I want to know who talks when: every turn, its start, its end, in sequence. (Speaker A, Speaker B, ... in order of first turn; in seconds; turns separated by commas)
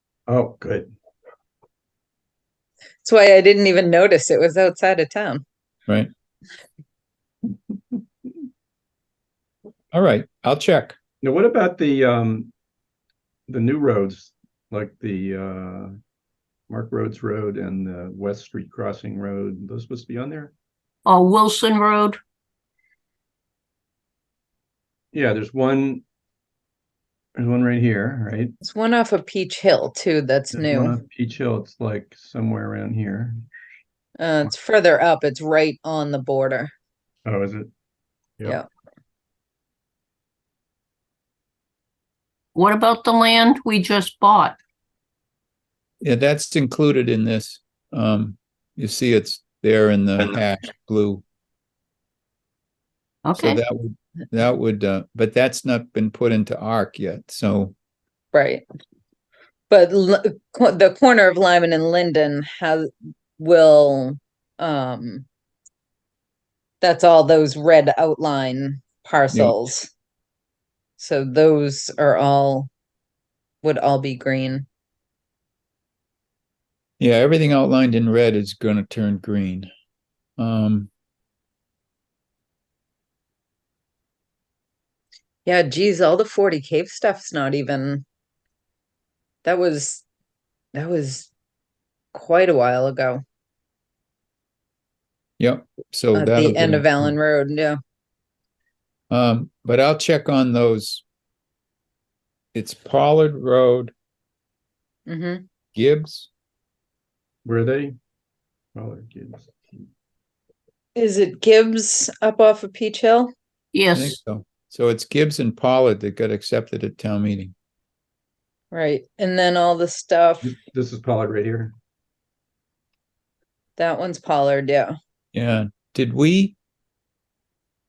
Speaker A: 0.3-0.9, Speaker B: 3.0-5.4, Speaker C: 9.9-10.9, Speaker A: 11.2-12.5, Speaker A: 13.5-15.9, Speaker A: 16.7-20.5, Speaker D: 21.1-22.2, Speaker A: 25.1-26.0, Speaker A: 27.4-28.5, Speaker B: 28.6-30.9, Speaker A: 30.5-33.4, Speaker B: 34.2-36.7, Speaker A: 37.2-37.7, Speaker D: 42.5-44.6, Speaker C: 46.0-51.2, Speaker D: 53.2-53.6, Speaker C: 53.4-57.7, Speaker B: 58.3-58.6, Speaker B: 59.7-65.2, Speaker B: 66.8-69.9, Speaker C: 69.3-69.6, Speaker B: 71.0-72.7, Speaker B: 73.6-74.7, Speaker C: 77.0-79.7, Speaker C: 80.4-80.9, Speaker B: 85.5-88.0, Speaker B: 89.4-90.0, Speaker B: 90.7-91.3, Speaker B: 92.1-93.2, Speaker C: 95.4-97.1, Speaker B: 96.1-97.8, Speaker C: 99.1-101.0, Speaker C: 102.5-103.9, Speaker B: 105.1-105.4, Speaker C: 105.7-106.3, Speaker A: 107.4-107.9, Speaker A: 108.7-109.9, Speaker B: 111.0-113.3, Speaker D: 113.7-114.2, Speaker C: 113.9-117.5, Speaker B: 118.7-120.5, Speaker A: 120.4-121.7, Speaker B: 123.8-125.0, Speaker C: 125.3-126.5